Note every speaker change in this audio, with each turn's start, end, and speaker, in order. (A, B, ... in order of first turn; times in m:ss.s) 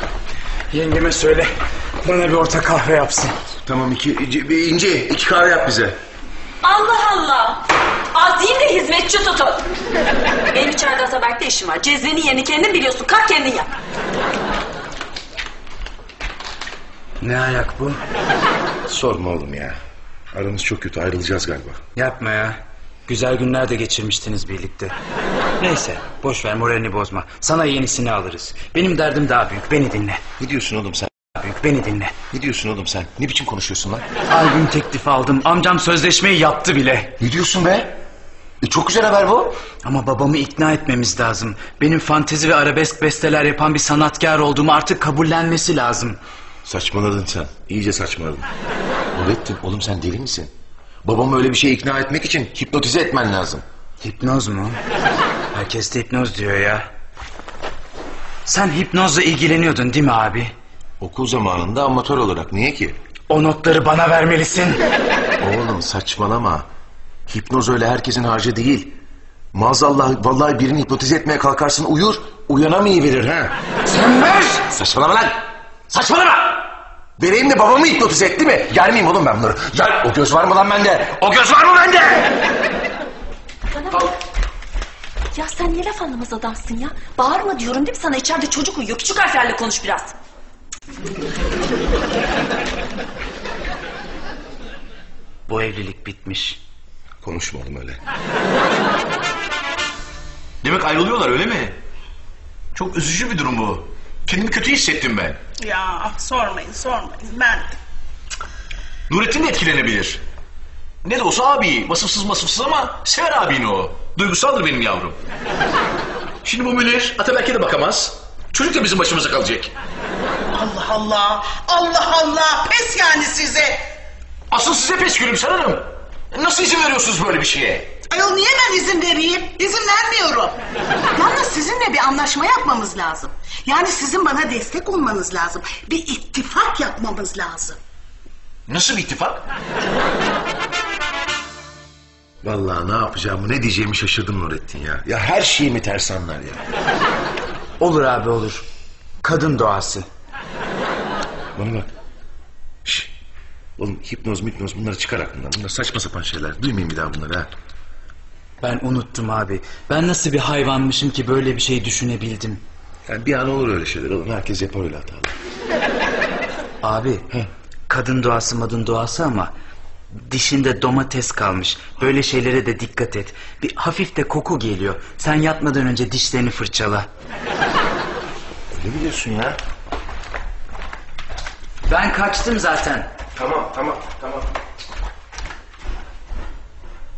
0:00.7-0:03.4 A
0:03.6-0:06.0 B
0:06.6-0:07.6 C
0:08.1-0:09.6 C
0:10.5-0:13.7 C
0:17.2-0:18.0 A
0:18.9-0:19.8 B
0:20.3-0:21.8 B
0:21.9-0:24.9 A
0:25.6-0:30.2 A
0:30.4-0:31.1 B
0:31.4-0:32.1 A
0:32.3-0:34.0 B
0:34.3-0:37.1 A
0:37.2-0:38.0 B
0:38.6-0:39.6 B
0:39.8-0:46.2 A
0:46.6-0:48.5 B
0:49.1-0:50.5 B
0:51.0-0:53.6 B
0:54.0-0:54.8 A
0:55.5-0:56.9 A
0:58.4-1:00.5 A
1:01.0-1:03.0 B
1:03.3-1:04.8 A
1:05.4-1:06.7 B
1:07.3-1:08.9 B
1:09.5-1:13.6 B
1:13.9-1:14.5 A
1:14.7-1:16.6 D
1:17.2-1:21.2 B
1:21.2-1:22.2 D
1:23.7-1:24.1 C
1:25.3-1:30.1 C
1:35.5-1:36.6 A
1:37.2-1:38.0 B
1:40.6-1:41.8 D
1:42.7-1:45.4 D
1:45.6-1:47.8 E
1:49.1-1:50.2 D
1:51.0-1:55.2 D
1:56.4-1:59.7 D
2:00.5-2:03.8 E
2:04.5-2:07.9 D
2:08.1-2:10.6 E
2:11.1-2:17.8 E
2:18.7-2:19.4 D
2:22.4-2:26.6 B
2:27.8-2:28.6 A
2:29.2-2:30.1 A
2:31.6-2:31.9 B
2:32.8-2:33.1 B
2:33.8-2:37.5 B
2:38.6-2:42.6 A
2:43.1-2:45.3 B
2:46.8-2:47.2 A
2:47.9-2:49.5 A
2:50.1-2:57.1 A
2:58.7-2:59.6 B
3:01.9-3:03.1 A
3:03.3-3:04.5 B